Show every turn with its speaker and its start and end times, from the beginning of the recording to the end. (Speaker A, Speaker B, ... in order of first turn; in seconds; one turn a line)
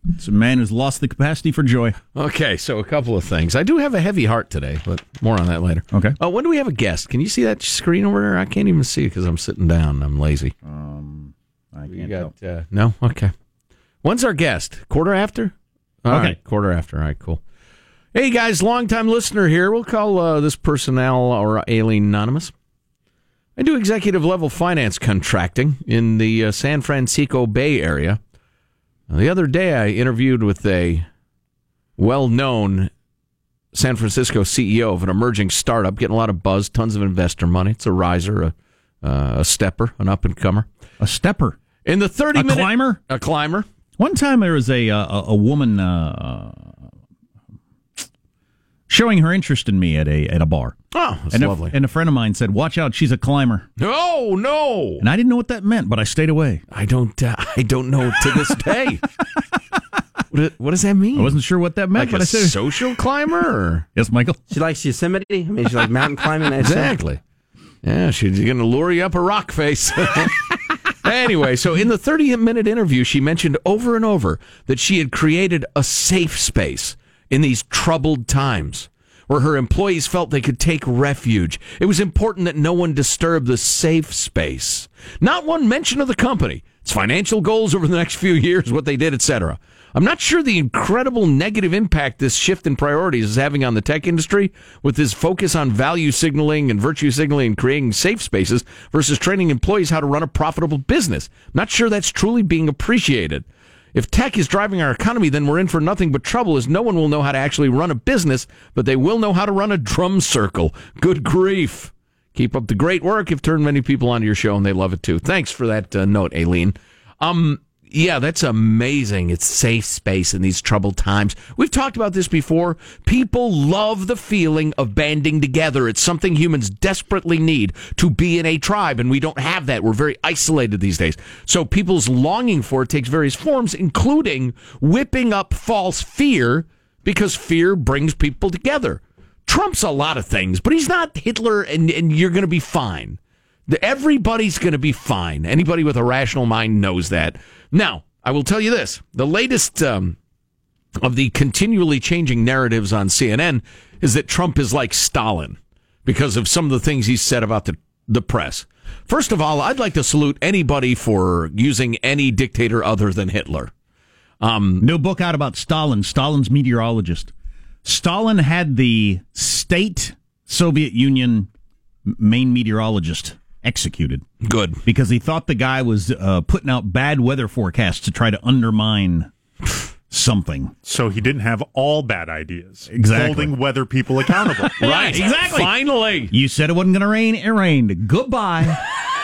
Speaker A: 0.2-2.0
Speaker B: 2.1-10.5
Speaker A: 10.7-12.3
Speaker B: 11.9-13.3
Speaker B: 14.0-15.5
Speaker B: 16.1-17.4
Speaker A: 16.1-16.4
Speaker B: 18.1-22.5
Speaker B: 23.6-28.2
Speaker B: 29.1-31.1
Speaker B: 32.0-32.9
Speaker B: 33.7-40.7
Speaker A: 41.0-41.6
Speaker B: 41.9-43.7
Speaker A: 42.3-43.0
Speaker A: 44.0-46.7
Speaker A: 48.9-50.8
Speaker B: 50.9-51.8
Speaker A: 51.3-53.7
Speaker B: 53.8-55.0
Speaker A: 55.0-56.6
Speaker B: 56.7-59.0
Speaker B: 60.3-61.4
Speaker A: 61.1-62.6
Speaker B: 62.0-63.9
Speaker A: 64.0-64.4
Speaker C: 64.5-67.0
Speaker B: 66.6-67.2
Speaker B: 67.8-150.2
Speaker B: 151.0-163.7
Speaker B: 164.4-164.8
Speaker A: 164.8-167.3
Speaker A: 167.8-171.5
Speaker A: 172.1-174.2
Speaker B: 174.4-174.8
Speaker A: 174.9-179.3
Speaker A: 180.1-180.7
Speaker D: 180.8-184.8
Speaker A: 182.9-183.6
Speaker A: 184.7-185.7
Speaker B: 184.8-186.3
Speaker A: 186.3-188.8